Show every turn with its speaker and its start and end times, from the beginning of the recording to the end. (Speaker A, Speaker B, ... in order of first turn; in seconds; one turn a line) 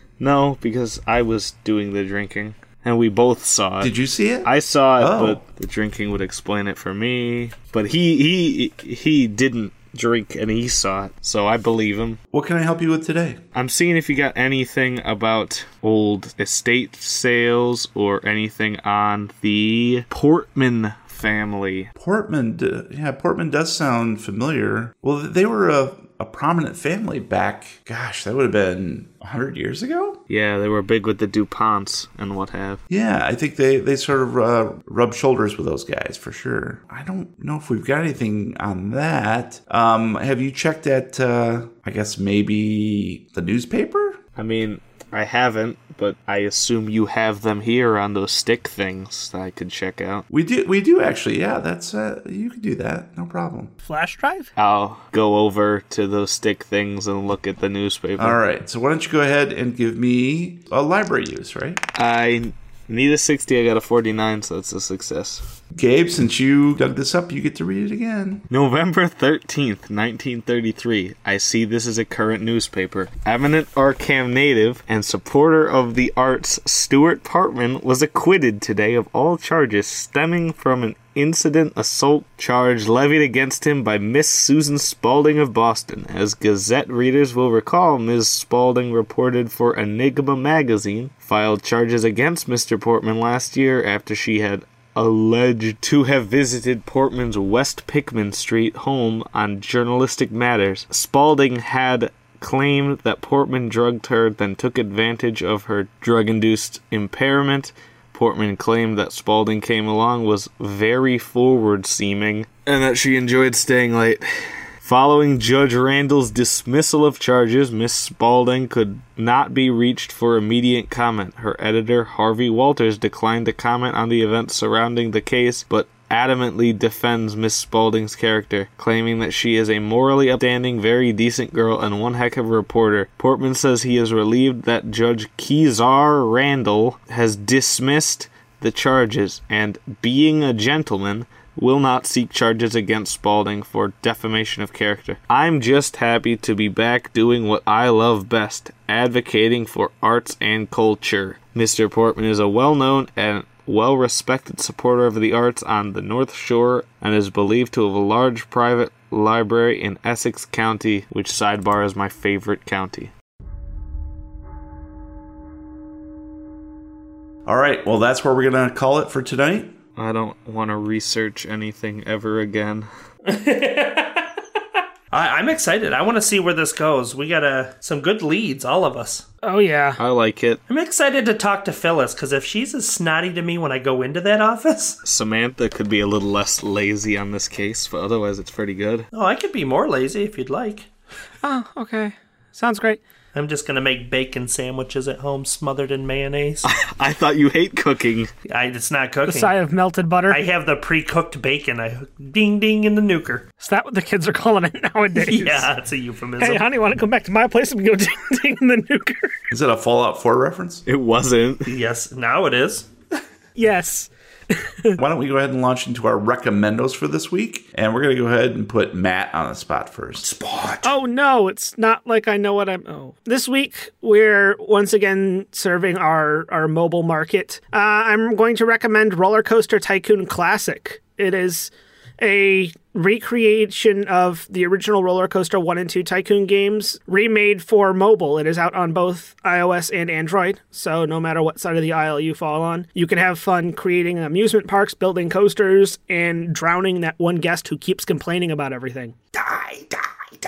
Speaker A: 0.2-3.9
Speaker B: 3.8-5.4
Speaker A: 4.4-12.2
Speaker B: 12.3-13.4
Speaker A: 13.5-21.9
Speaker B: 21.9-30.2
Speaker A: 30.3-32.8
Speaker B: 32.9-44.2
Speaker A: 44.4-50.2
Speaker B: 50.3-53.7
Speaker C: 53.8-54.5
Speaker A: 54.5-58.4
Speaker B: 58.2-61.8
Speaker A: 62.0-65.4
Speaker B: 65.7-68.4
Speaker A: 68.5-114.2
Speaker A: 114.8-163.1
Speaker B: 167.4-169.8
Speaker A: 170.0-172.9
Speaker D: 173.2-174.4
Speaker D: 175.1-179.2
Speaker C: 179.4-180.0
Speaker A: 180.0-180.6
Speaker D: 180.7-185.0
Speaker A: 185.0-189.1
Speaker D: 189.1-190.9
Speaker C: 191.4-193.0
Speaker D: 193.3-196.7
Speaker A: 196.6-198.3
Speaker D: 198.5-199.6
Speaker C: 199.3-200.4
Speaker D: 200.3-203.4
Speaker C: 203.6-205.7
Speaker D: 205.2-206.6
Speaker C: 206.4-209.3
Speaker B: 209.5-210.8
Speaker A: 210.8-211.8
Speaker D: 211.7-212.9
Speaker C: 213.6-215.0
Speaker B: 215.0-220.3
Speaker D: 220.2-220.9
Speaker C: 220.8-249.1
Speaker D: 249.3-249.9